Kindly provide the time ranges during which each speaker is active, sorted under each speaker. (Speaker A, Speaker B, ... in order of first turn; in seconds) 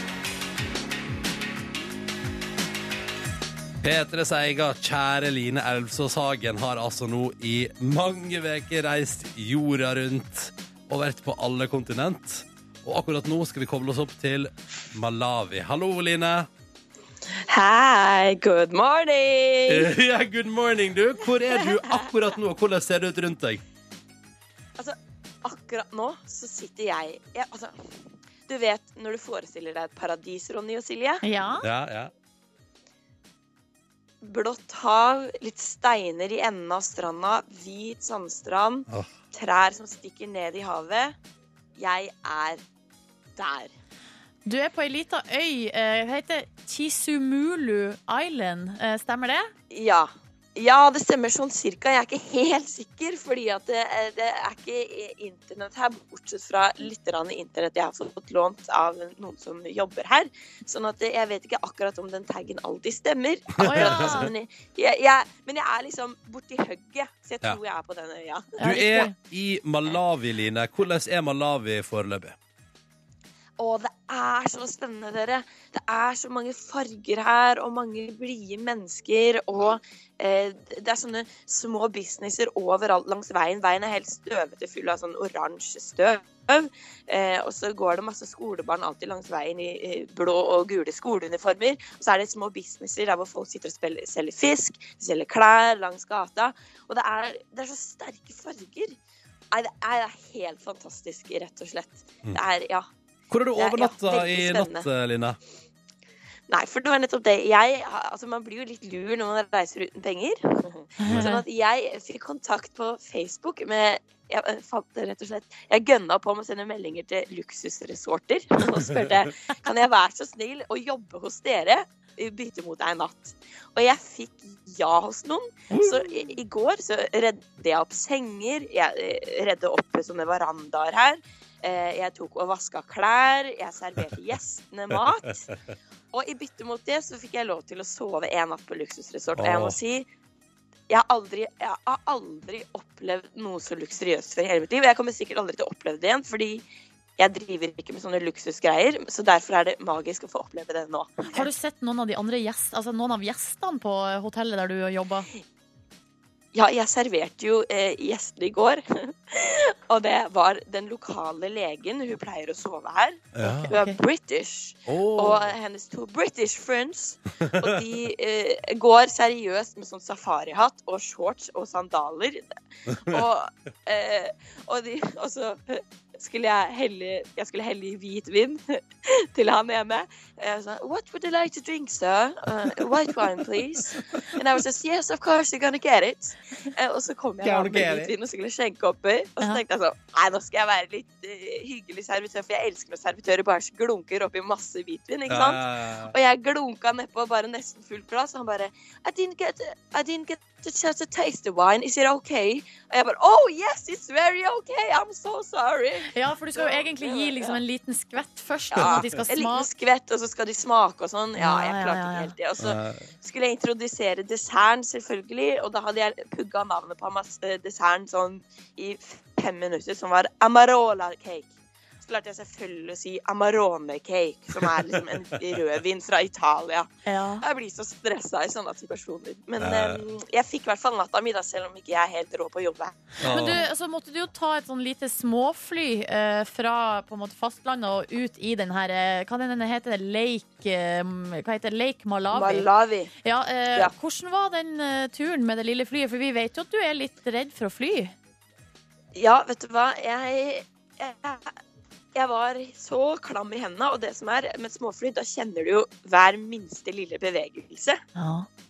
Speaker A: 3.8-16.5, 19.7-23.6, 31.6-32.1, 63.6-64.3, 68.6-72.4, 103.3-105.4, 125.7-126.0, 134.9-135.2, 139.4-139.8, 163.3-163.8, 164.9-165.5, 167.4-167.8, 172.9-173.2, 183.9-184.2, 187.4-188.1, 195.3-196.1, 208.8-209.2, 212.6-213.1, 229.6-230.0, 233.2-233.6
Speaker B: 17.5-19.9, 24.8-27.8, 28.5-31.2, 34.2-41.2, 41.8-42.6, 43.4-43.7, 49.7-69.1, 73.6-99.0, 99.5-102.9, 103.5-104.9, 106.5-135.5, 136.1-140.1, 140.9-146.7, 147.2-151.5, 156.5-172.4, 173.0-207.6, 208.7-226.9, 227.4-233.2, 242.3-243.1, 249.2-251.5, 252.2-258.0
Speaker C: 31.2-31.7, 44.5-49.5, 63.6-64.3, 68.6-69.2, 111.0-111.4, 151.3-155.3, 163.7-164.0, 206.1-209.7, 211.4-212.3, 227.1-227.4, 233.2-242.7, 243.2-248.2, 258.2-258.5